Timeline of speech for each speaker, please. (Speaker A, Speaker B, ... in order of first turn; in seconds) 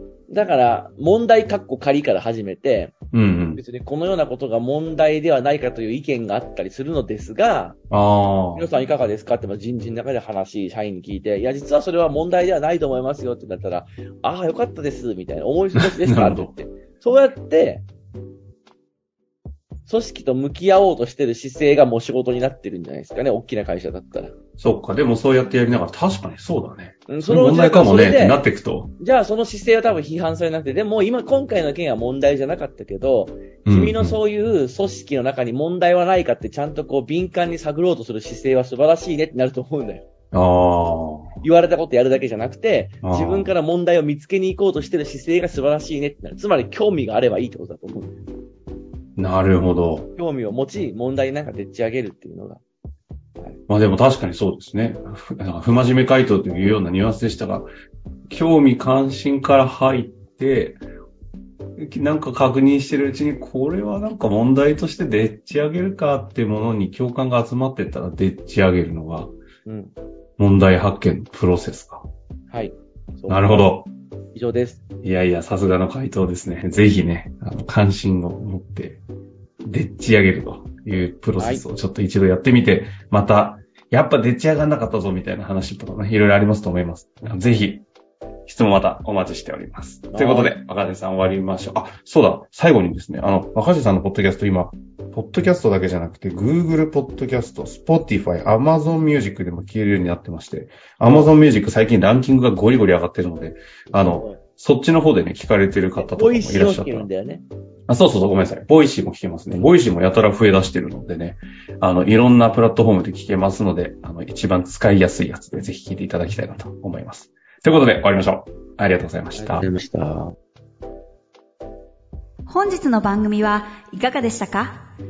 Speaker A: 0.3-3.0, 3.5-7.8, 8.5-17.8, 19.9-24.4, 27.1-28.4, 29.0-40.0, 41.4-48.1, 50.1-52.6, 69.7-69.9, 72.5-73.7, 74.3-74.8, 81.4-81.6, 90.1-90.5, 101.0-101.3, 103.9-104.4, 105.9-107.4, 119.3-120.3
Speaker B: 3.1-3.6, 7.9-8.7, 15.7-16.5, 24.6-28.9, 33.6-34.2, 40.3-41.4, 43.0-43.5, 49.2-50.1, 53.7-57.7, 58.3-60.8, 61.8-69.3, 70.4-72.1, 73.3-73.9, 75.0-79.0, 79.6-87.8, 88.5-107.1, 107.9-119.6
Speaker C: 122.5-124.8